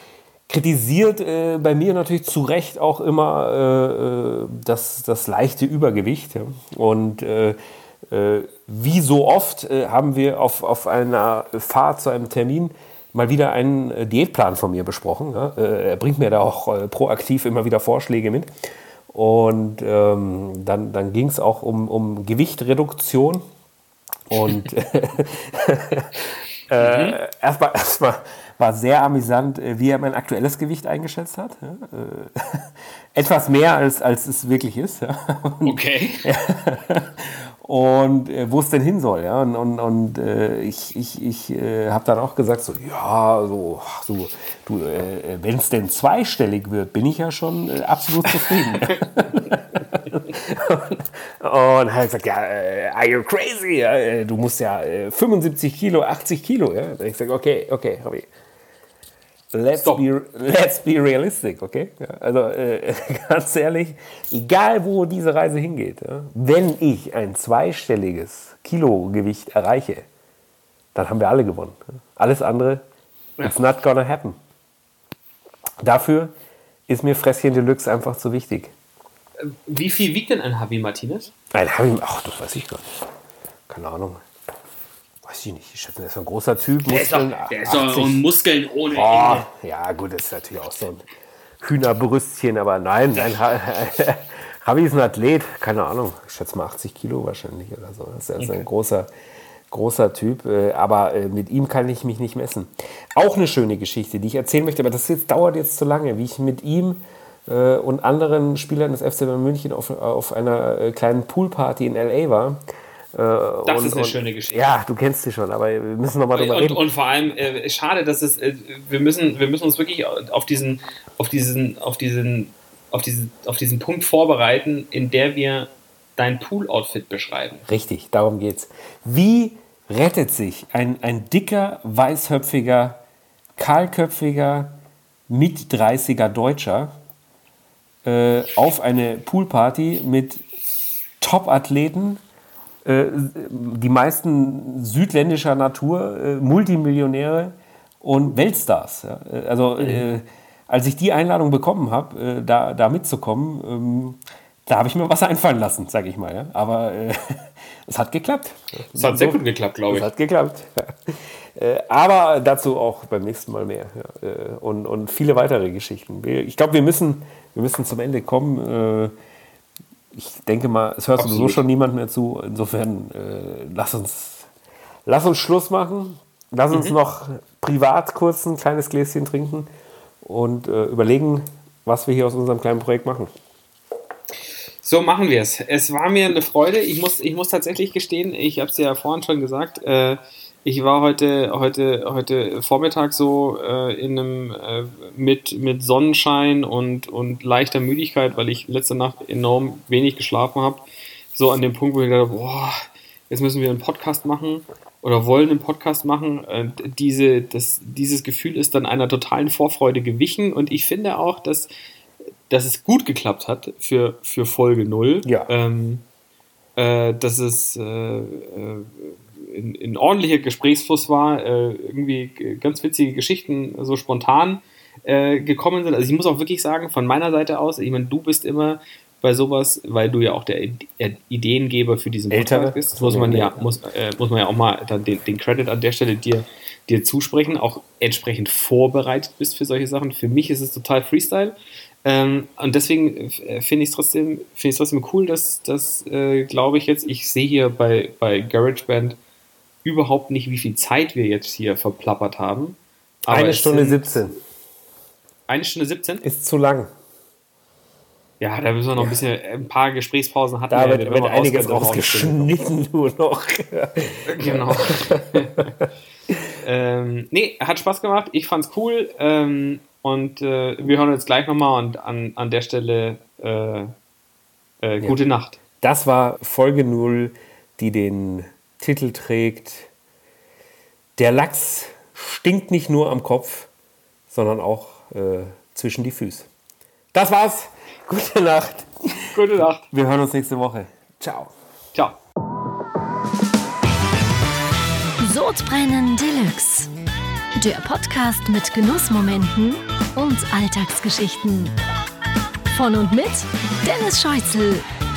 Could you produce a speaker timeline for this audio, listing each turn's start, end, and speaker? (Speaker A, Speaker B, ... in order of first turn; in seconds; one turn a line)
Speaker A: 0.5-7.6
Speaker A: 8.1-18.5
Speaker A: 19.1-23.4
Speaker A: 24.3-58.3
Speaker B: 24.4-24.7
Speaker B: 26.8-27.2
Speaker B: 35.6-36.2
Speaker B: 48.4-49.0
Speaker A: 59.5-70.0
Speaker B: 59.8-60.0
Speaker A: 71.0-72.8
Speaker A: 73.4-74.4
Speaker A: 75.8-76.3
Speaker A: 76.9-78.7
Speaker B: 79.4-81.3
Speaker A: 81.5-82.9
Speaker A: 83.7-84.2
Speaker A: 85.2-88.2
Speaker B: 86.8-89.5
Speaker A: 88.9-91.1
Speaker A: 91.6-99.1
Speaker B: 98.4-98.7
Speaker A: 99.7-112.6
Speaker A: 113.1-116.8
Speaker B: 113.7-114.7
Speaker B: 116.3-127.6
Speaker A: 127.7-133.0
Speaker A: 133.6-134.8
Speaker A: 135.3-136.9
Speaker A: 138.1-140.4
Speaker A: 141.2-142.2
Speaker A: 142.8-169.1
Speaker B: 149.8-150.1
Speaker B: 158.9-160.1
Speaker A: 170.1-174.5
Speaker B: 171.2-171.6
Speaker A: 175.1-179.7
Speaker A: 180.2-183.3
Speaker B: 184.8-211.7
Speaker B: 212.5-216.0
Speaker A: 215.2-215.5
Speaker B: 216.8-249.2
Speaker A: 232.3-233.7
Speaker B: 249.8-254.2
Speaker A: 253.3-254.4
Speaker B: 255.5-256.2
Speaker A: 256.2-256.9
Speaker B: 258.4-262.6
Speaker A: 260.7-265.9
Speaker B: 264.3-265.7
Speaker B: 266.6-273.9
Speaker B: 274.8-275.6
Speaker A: 275.8-279.9
Speaker A: 281.2-283.7
Speaker A: 284.3-286.5
Speaker A: 287.1-289.4
Speaker B: 289.4-289.9
Speaker A: 289.9-291.5
Speaker C: 295.2-296.9
Speaker C: 297.6-301.7
Speaker C: 302.7-304.9